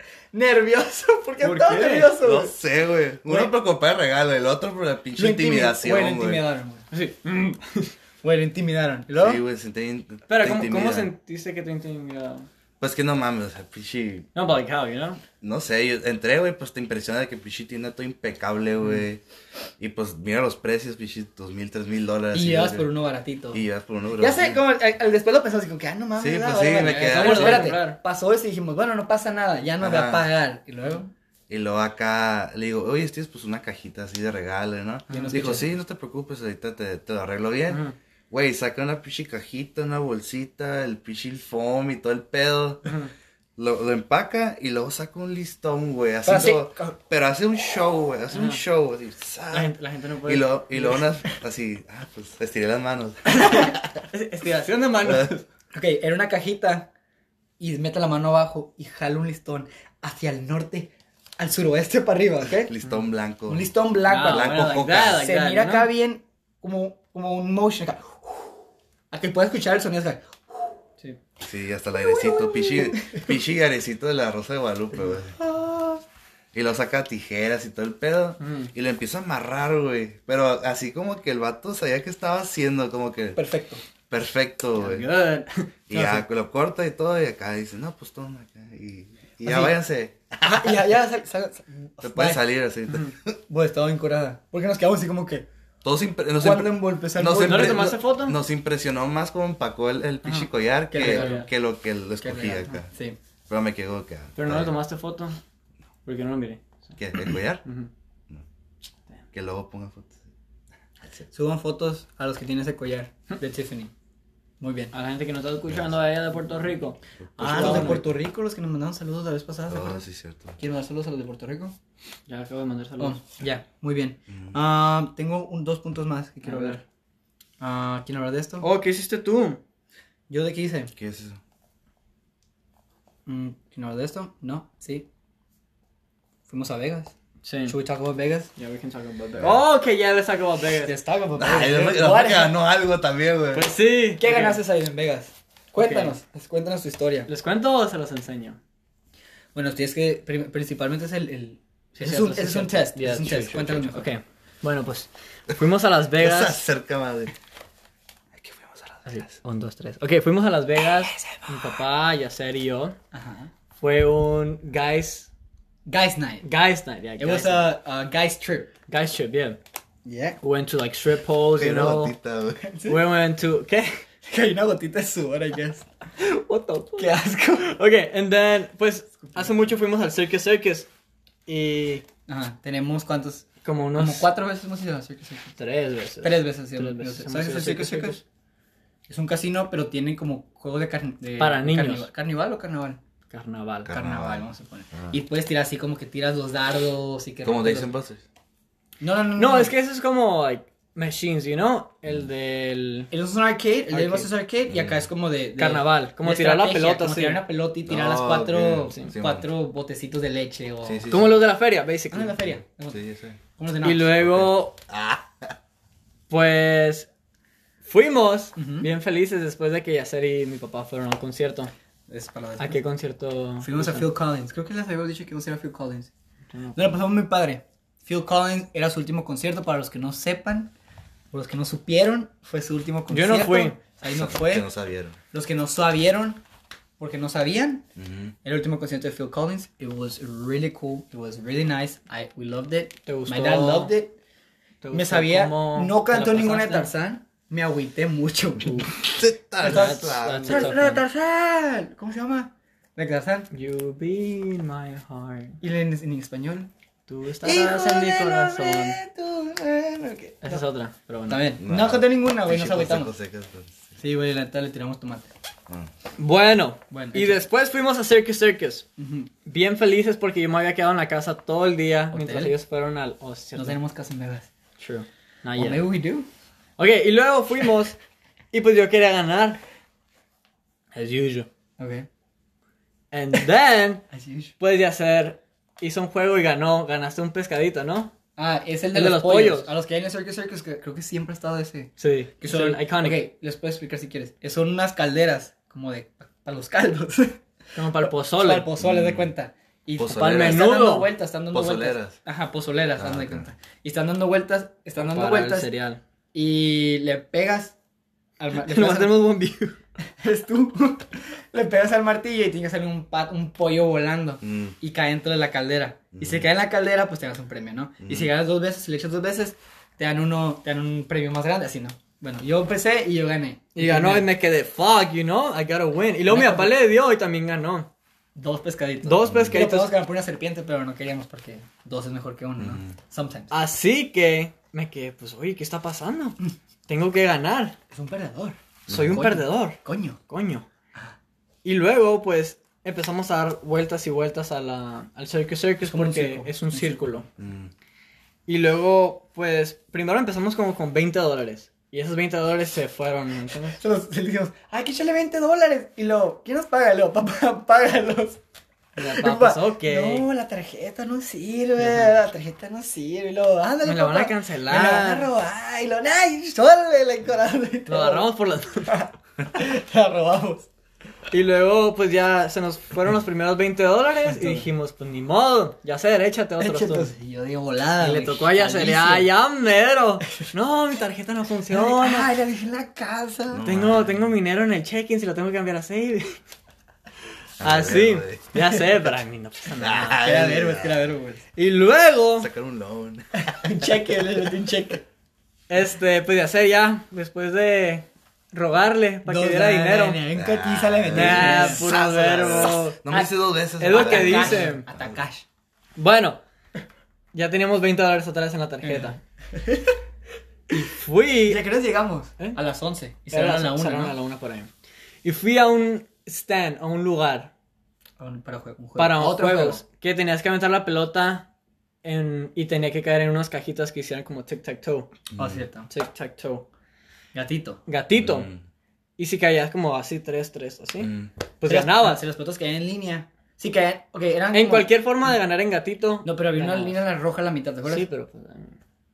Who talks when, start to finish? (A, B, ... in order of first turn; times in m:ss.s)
0:00.3-0:02.5 A
0:01.4-0:02.1 B
0:02.2-0:06.4 C
0:03.2-0:03.5 A
0:05.2-0:06.9 A
0:06.9-0:07.9 B
0:08.2-0:09.4 A
0:09.2-0:11.1 C
0:10.3-0:12.5 B
0:12.8-0:14.3 C
0:14.3-0:15.2 B
0:15.4-0:19.2 C
0:19.8-0:22.9 C
0:22.3-0:23.6 A
0:23.5-0:24.6 C
0:24.2-0:31.1 A
0:26.2-0:27.8 C
0:27.0-0:28.0 B
0:29.8-0:30.3 C
0:31.5-0:43.0 C
0:35.1-0:35.7 A
0:37.7-0:37.9 B
0:42.8-0:43.1 B
0:43.6-0:54.0 C
0:46.2-0:47.0 A
0:48.3-0:48.6 B
0:49.5-0:51.1 B
0:53.3-0:53.7 A
0:53.5-0:55.4 B
0:55.0-0:55.3 C
0:55.7-0:56.9 A
0:57.6-1:02.7 A
1:02.5-1:05.2 C
1:03.5-1:04.6 A
1:04.1-1:05.9 B
1:05.1-1:08.4 A
1:09.1-1:10.7 A
1:11.4-1:15.4 C
1:12.0-1:13.3 A
1:15.4-1:16.0 A
1:16.5-1:23.4 C
1:18.4-1:18.7 B
1:23.4-1:23.8 A
1:24.1-1:25.1 C
1:24.7-1:25.7 B
1:25.9-1:30.8 C
1:25.9-1:26.2 A
1:29.4-1:29.8 A
1:30.4-1:32.4 A
1:32.0-1:33.4 C
1:32.9-1:33.1 B
1:33.5-1:35.5 A
1:35.8-1:42.9 C
1:36.4-1:38.0 A
1:37.4-1:38.4 B
1:40.2-1:41.5 B
1:40.9-1:41.4 A
1:42.2-1:43.2 A
1:43.5-1:44.7 C
1:44.4-1:45.4 B
1:46.0-1:47.9 B
1:47.0-1:47.6 C
1:49.3-1:50.2 C
1:51.1-1:53.9 A
1:54.6-1:54.9 A
1:54.9-1:58.1 B
1:57.2-1:58.0 C
1:57.4-2:00.0 A
1:59.7-2:00.6 C
2:00.6-2:01.7 A
2:02.3-2:03.2 B
2:03.0-2:06.8 A
2:04.3-2:04.6 C
2:06.4-2:06.8 B
2:07.6-2:08.7 A
2:08.6-2:09.6 B
2:10.3-2:10.9 A
2:11.0-2:11.4 C
2:13.2-2:15.0 A
2:16.5-2:17.1 A
2:17.4-2:17.8 B
2:17.6-2:18.5 A
2:18.6-2:20.9 B
2:20.8-2:22.5 A
2:21.4-2:23.7 C
2:23.5-2:24.6 B
2:24.2-2:27.3 A
2:25.8-2:26.1 B
2:27.3-2:28.6 B
2:29.5-2:34.2 A
2:32.0-2:36.6 B
2:36.2-2:37.3 C
2:38.3-2:39.4 C
2:39.1-2:43.0 B
2:43.1-2:43.5 A
2:43.8-2:45.3 B
2:45.9-2:46.4 A
2:46.4-2:47.7 B
2:47.2-2:48.7 A
2:48.9-2:49.6 B
2:50.0-2:50.4 A
2:50.4-2:52.1 B
2:51.5-2:52.6 C
2:52.6-2:53.1 A
2:52.9-2:54.0 B
2:54.2-2:55.9 A
2:56.2-3:00.9 B
2:56.9-2:57.7 A
2:59.2-2:59.7 A
3:01.5-3:02.0 B
3:02.3-3:05.5 A
3:03.6-3:04.3 B
3:05.6-3:08.2 B
3:06.2-3:08.2 A
3:09.1-3:13.0 A
3:11.4-3:12.1 B
3:13.3-3:13.9 B
3:13.8-3:15.2 C
3:13.9-3:17.9 A
3:17.4-3:18.2 C
3:19.0-3:19.7 A
3:19.4-3:23.1 B
3:23.1-3:31.0 A
3:23.9-3:24.3 B
3:24.7-3:25.0 C
3:25.6-3:27.4 B
3:27.8-3:29.4 C
3:30.8-3:31.4 C
3:31.1-3:32.4 B
3:32.1-3:33.0 A
3:32.9-3:33.4 C
3:33.6-3:34.2 A
3:33.8-3:34.8 B
3:34.2-3:35.6 C
3:36.3-3:37.1 B
3:37.8-3:41.7 B
3:38.6-3:38.9 A
3:42.1-3:42.8 A
3:42.6-3:44.1 B
3:43.6-3:46.1 A
3:46.5-3:47.0 B
3:46.7-3:50.7 A
3:51.3-3:54.7 A
3:53.1-3:53.8 B
3:54.1-3:55.2 C
3:55.3-3:56.4 A
3:57.0-3:57.8 A
3:58.0-3:58.3 C
3:58.4-4:04.2 A
4:03.0-4:03.9 B
4:04.8-4:06.9 B
4:04.9-4:09.0 A
4:08.9-4:10.8 C
4:09.6-4:11.0 B
4:09.6-4:13.5 A
4:13.5-4:15.6 B
4:15.6-4:16.7 A
4:17.1-4:19.0 B
4:17.4-4:20.6 A
4:20.4-4:21.5 B
4:21.3-4:23.1 A
4:21.6-4:23.9 C
4:24.0-4:25.3 A
4:26.2-4:28.9 B
4:26.9-4:27.4 A
4:29.0-4:29.3 A
4:29.4-4:33.8 B
4:32.1-4:32.5 A
4:33.6-4:34.5 A
4:34.8-4:35.8 B
4:35.5-4:36.3 A
4:36.8-4:38.0 B
4:38.5-4:39.6 B
4:40.9-4:41.5 B
4:41.8-4:42.1 A
4:43.1-4:44.1 B
4:44.1-4:44.5 A
4:44.6-4:48.1 B
4:48.4-4:57.4 A
4:48.9-4:49.7 B
4:52.0-4:53.2 B
4:57.7-4:58.7 B
4:58.0-5:05.7 A
4:58.8-4:59.3 C
5:00.0-5:00.7 C
5:00.1-5:01.1 B
5:01.5-5:02.2 C
5:03.0-5:03.4 C
5:05.0-5:06.0 B
5:06.3-5:07.7 A
5:08.4-5:09.2 A
5:08.5-5:09.8 B
5:10.2-5:24.3 A
5:14.4-5:14.8 C
5:16.1-5:16.4 C
5:18.0-5:18.3 C
5:23.8-5:27.9 B
5:26.3-5:26.7 A
5:28.4-5:33.5 A
5:29.0-5:29.9 B
5:29.2-5:29.6 C
5:32.6-5:32.9 C
5:33.5-5:37.8 B
5:37.9-5:40.2 A
5:38.9-5:39.2 C
5:38.9-5:39.8 B
5:40.3-5:40.6 B
5:41.6-5:47.2 B
5:45.8-5:47.0 A
5:47.4-5:47.7 C
5:48.5-5:53.8 B
5:53.8-5:58.4 A
5:59.0-6:00.3 B
5:59.0-6:08.3 A
6:01.8-6:02.1 B
6:03.8-6:05.3 B
6:07.9-6:08.9 B
6:08.8-6:10.7 A
6:11.3-6:17.1 B
6:14.2-6:14.6 A
6:16.6-6:19.3 A
6:18.0-6:22.3 B
6:21.7-6:23.6 A
6:23.5-6:24.2 C
6:23.6-6:26.4 B
6:27.6-6:28.5 C
6:27.6-6:30.2 B
6:29.8-6:31.0 C
6:30.2-6:31.4 A
6:31.6-6:32.5 B
6:32.4-6:34.0 C
6:33.3-6:35.0 A
6:35.7-6:40.2 B
6:39.2-6:41.9 A
6:40.3-6:45.1 C
6:41.1-6:43.0 B
6:43.8-6:44.8 B
6:43.9-6:45.4 A
6:46.0-6:46.4 B
6:47.3-6:49.2 B
6:48.8-6:50.0 A
6:50.7-6:51.6 B
6:51.5-6:54.1 A
6:53.3-6:54.7 B
6:55.2-6:57.5 B
6:58.2-6:59.8 A
6:59.0-7:01.5 B
7:02.0-7:05.1 B
7:05.3-7:05.9 A
7:05.9-7:06.6 B
7:07.3-7:07.8 A
7:07.9-7:08.5 B
7:08.2-7:08.6 C
7:09.2-7:12.2 B
7:11.0-7:11.3 C
7:11.6-7:14.9 A
7:14.5-7:17.0 B
7:16.2-7:18.0 A
7:17.8-7:18.8 B